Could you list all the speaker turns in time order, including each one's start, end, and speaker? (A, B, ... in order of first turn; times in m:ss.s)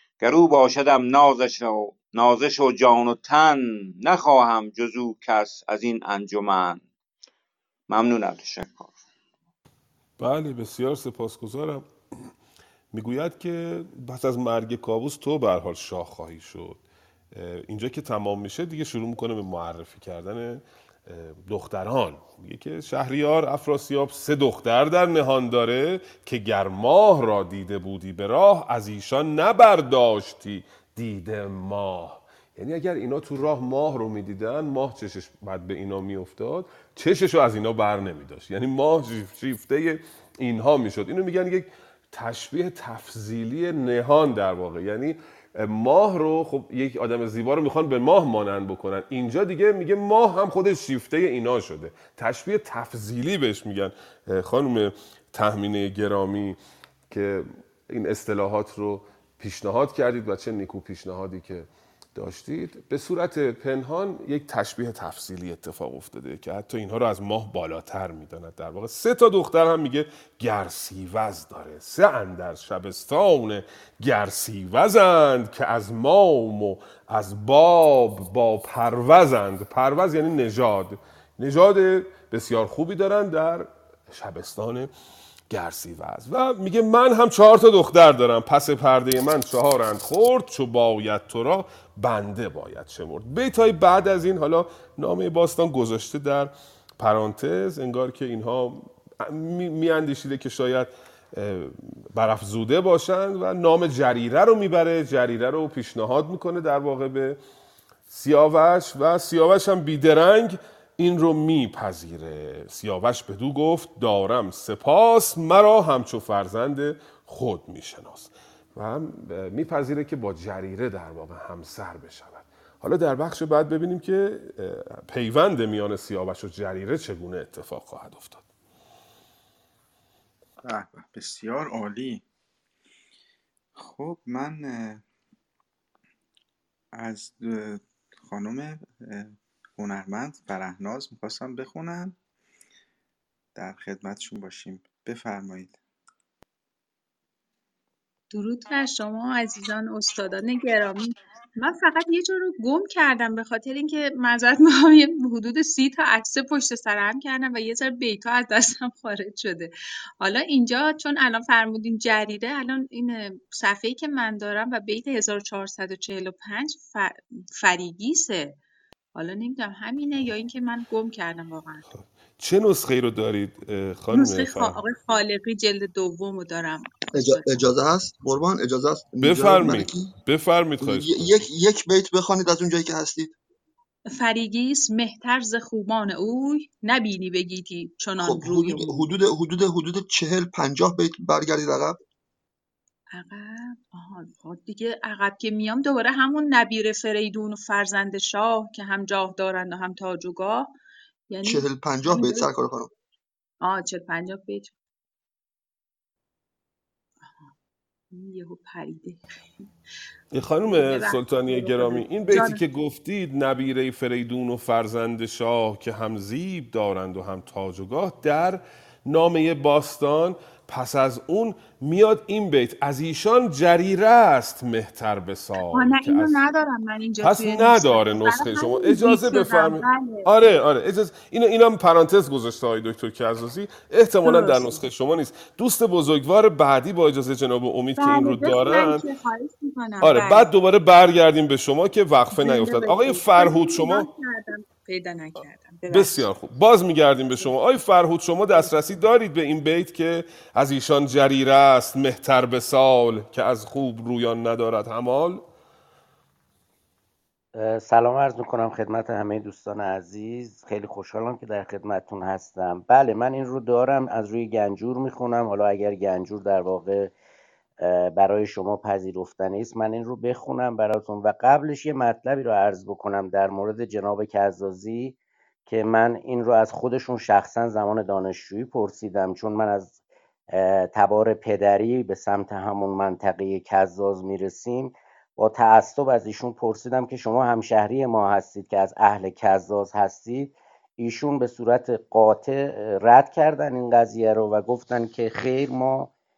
0:00.2-0:06.8 A
0:07.9-0:09.0 A
0:10.2-0:11.9 B
0:12.9-0:56.6 B
0:57.1-1:24.9 B
1:25.5-1:47.4 B
1:48.1-2:08.5 B
2:10.6-2:12.2 C
2:13.8-2:15.0 C
2:16.9-2:22.2 C
2:23.6-2:25.8 C
2:28.3-2:48.6 D
2:49.2-2:51.9 D
2:51.9-2:54.8 B
2:54.1-2:57.7 D
2:57.1-3:00.1 E
2:59.2-3:01.4 B
3:00.8-3:03.4 E
3:04.1-3:09.1 D
3:08.2-3:12.0 E
3:13.1-3:20.7 D
3:21.3-3:22.5 D
3:21.4-3:22.9 E
3:23.6-3:24.8 D
3:28.1-3:29.6 D
3:30.3-3:46.4 B
3:30.6-3:32.6 D
3:45.7-3:50.3 D
3:47.2-3:59.1 B
3:54.2-3:54.8 D
3:58.0-4:00.5 D
4:00.0-4:04.1 B
4:02.3-4:06.3 D
4:05.9-4:15.4 B
4:17.6-4:27.1 F
4:27.8-4:35.2 F
4:35.7-4:40.0 F
4:40.5-4:56.1 F